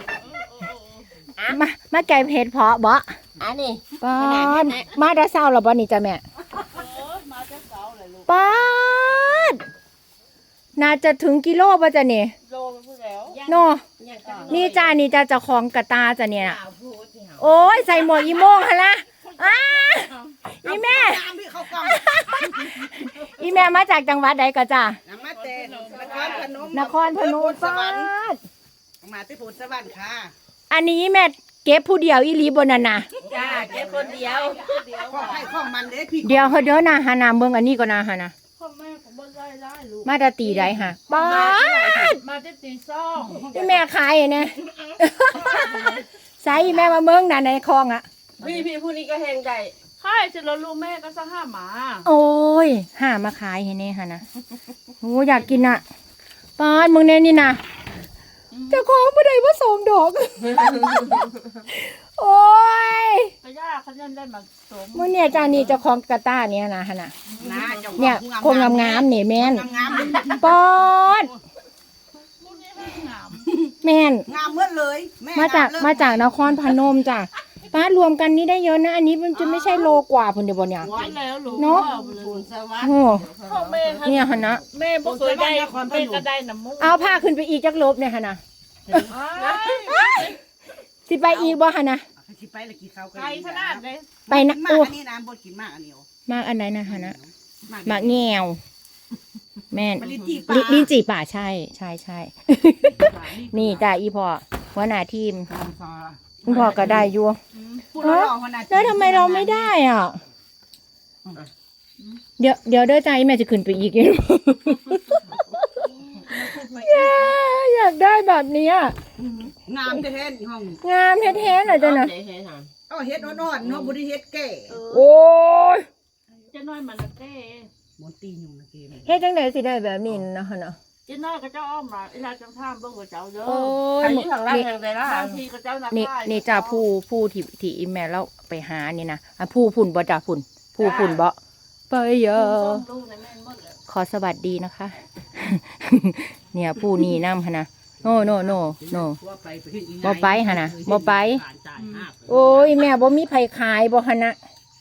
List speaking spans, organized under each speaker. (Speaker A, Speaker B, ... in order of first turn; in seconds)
Speaker A: 0.1-1.1, 6.7-8.3, 12.4-13.7, 14.2-14.8, 17.8-18.5, 19.3-20.1, 25.4-26.6, 33.2-35.6, 38.5-43.5, 45.4-46.0, 50.0-52.1, 55.3-55.8, 58.5-58.8, 63.4-65.8, 67.3-68.1, 69.7-70.3, 72.4-73.5, 80.8-82.5, 83.4-87.3, 89.1-90.4, 91.3-91.6, 93.1-94.2, 106.5-108.0, 116.3-117.4, 123.2-123.4, 124.7-125.1, 126.5-127.7, 131.1-133.9, 134.5-136.8, 140.8-141.2, 142.3-143.8, 151.8-152.1
Speaker B: 1.4-1.6, 3.4-5.0, 14.0-14.9, 16.4-17.5, 25.8-26.3, 33.4-34.7, 43.3-43.8, 48.4-49.7, 80.8-84.6, 88.9-89.6, 100.0-100.4, 121.2-122.7, 123.6-123.9, 133.9-135.4
Speaker C: 1.5-3.1, 4.0-6.2, 8.3-9.6, 10.8-12.3, 13.4-13.8, 14.5-16.6, 17.4-21.2, 21.8-25.0, 26.7-28.4, 30.7-33.1, 36.2-38.3, 40.0-42.2, 43.5-48.0, 52.0-54.2, 55.0-55.8, 56.6-57.6, 58.7-63.3, 64.9-67.1, 68.0-69.7, 70.2-71.3, 73.8-74.3, 75.3-80.9, 81.5-81.9, 82.8-83.2, 84.0-84.6, 86.8-88.4, 89.5-90.3, 91.1-92.0, 94.3-94.9, 96.3-97.2, 97.8-98.6, 99.7-105.5, 106.5-107.4, 108.0-110.2, 112.4-115.7, 116.5-119.0, 120.8-122.1, 124.9-125.9, 129.1-130.8, 133.4-134.6, 135.9-141.3, 141.9-142.8, 143.9-149.2, 150.0-151.4, 152.3-154.4
Speaker D: 20.6-23.4, 25.1-28.1, 29.0-30.3, 33.2-34.4, 34.9-36.8, 41.1-42.0, 67.4-70.6, 74.3-76.7, 79.3-79.9, 80.8-81.1, 85.0-86.3, 92.2-96.1, 96.8-98.3, 99.9-100.9, 102.9-103.9, 105.5-107.1, 107.9-109.7, 119.2-120.8, 122.9-124.8, 128.0-129.2, 148.0-152.8